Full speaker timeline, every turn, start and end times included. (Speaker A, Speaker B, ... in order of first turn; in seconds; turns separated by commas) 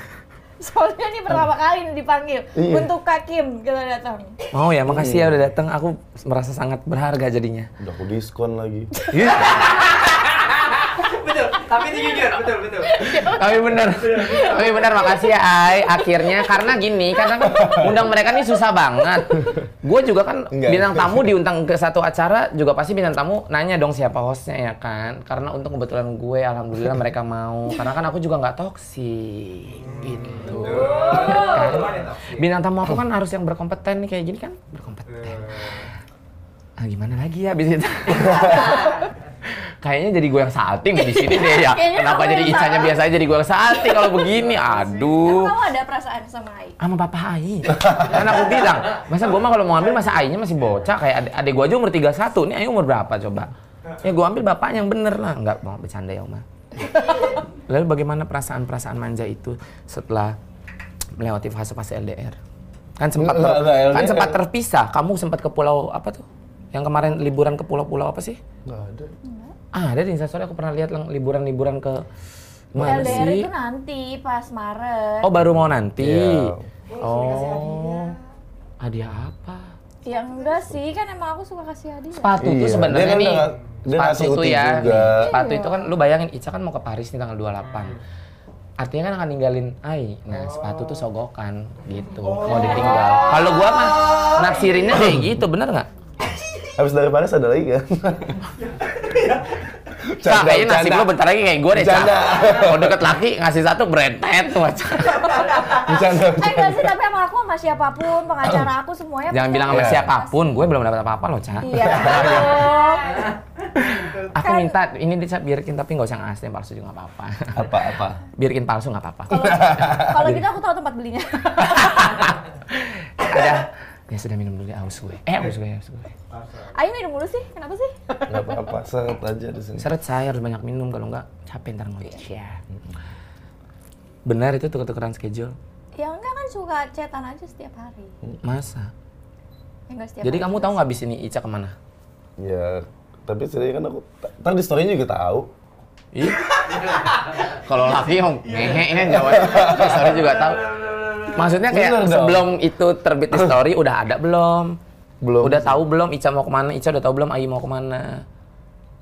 Speaker A: 0.6-4.4, Speaker B: 2.5-2.9, Speaker C: 4.5-7.7, Speaker B: 4.9-5.4, Speaker B: 7.8-9.4, Speaker C: 9.2-9.7, Speaker D: 9.4-10.2, Speaker D: 10.9-13.1, Speaker A: 13.0-13.4, Speaker C: 13.0-35.9, Speaker D: 14.0-14.6, Speaker A: 14.2-14.9, Speaker A: 16.2-16.4, Speaker B: 17.5-18.0, Speaker B: 20.5-21.3, Speaker D: 29.8-32.5, Speaker A: 30.5-31.9, Speaker D: 35.1-35.9, Speaker C: 36.8-39.0, Speaker A: 38.3-39.0, Speaker C: 39.8-45.5, Speaker A: 40.9-43.0, Speaker A: 43.9-44.2, Speaker D: 44.2-45.1, Speaker A: 45.1-46.8, Speaker C: 46.8-56.4, Speaker B: 47.8-48.1, Speaker C: 57.0-60.4, Speaker C: 61.2-62.4, Speaker C: 63.0-68.4, Speaker B: 63.2-64.4, Speaker B: 68.6-69.1, Speaker A: 69.2-69.5, Speaker C: 69.7-72.0, Speaker C: 72.7-73.5, Speaker B: 72.7-73.3, Speaker A: 72.8-75.3, Speaker C: 75.2-78.1, Speaker B: 76.0-76.7, Speaker D: 76.9-78.2, Speaker C: 78.8-79.7, Speaker A: 80.0-82.4, Speaker D: 80.1-80.5, Speaker C: 82.1-88.0, Speaker B: 82.4-85.3, Speaker A: 85.2-85.9, Speaker D: 87.6-88.0, Speaker C: 88.8-95.9, Speaker D: 90.3-91.0, Speaker D: 92.2-94.8, Speaker A: 92.9-93.2, Speaker B: 94.9-95.3, Speaker B: 96.8-98.4, Speaker D: 98.6-99.6, Speaker B: 100.0-101.1, Speaker C: 100.2-105.7, Speaker B: 101.7-103.0, Speaker D: 105.2-105.6, Speaker B: 105.7-106.9, Speaker A: 106.3-110.4, Speaker C: 109.3-112.7, Speaker B: 109.7-110.1, Speaker A: 111.6-113.3, Speaker B: 111.8-112.7, Speaker D: 113.8-114.2, Speaker C: 113.8-117.8, Speaker A: 114.3-114.8, Speaker B: 117.5-118.2, Speaker C: 118.3-120.4, Speaker A: 119.3-122.3, Speaker B: 119.4-120.3, Speaker C: 121.8-126.1, Speaker D: 126.3-126.8, Speaker A: 126.7-128.2, Speaker B: 128.3-129.9, Speaker C: 129.8-132.6, Speaker C: 134.2-135.6, Speaker A: 135.9-138.1, Speaker C: 138.4-138.9, Speaker A: 139.9-140.9, Speaker C: 140.2-141.7, Speaker B: 142.4-145.5, Speaker C: 146.1-150.7, Speaker D: 146.5-147.4, Speaker D: 148.5-151.4, Speaker B: 149.2-150.1, Speaker C: 151.3-154.8, Speaker B: 151.7-152.5, Speaker B: 155.2-155.8, Speaker C: 155.4-158.2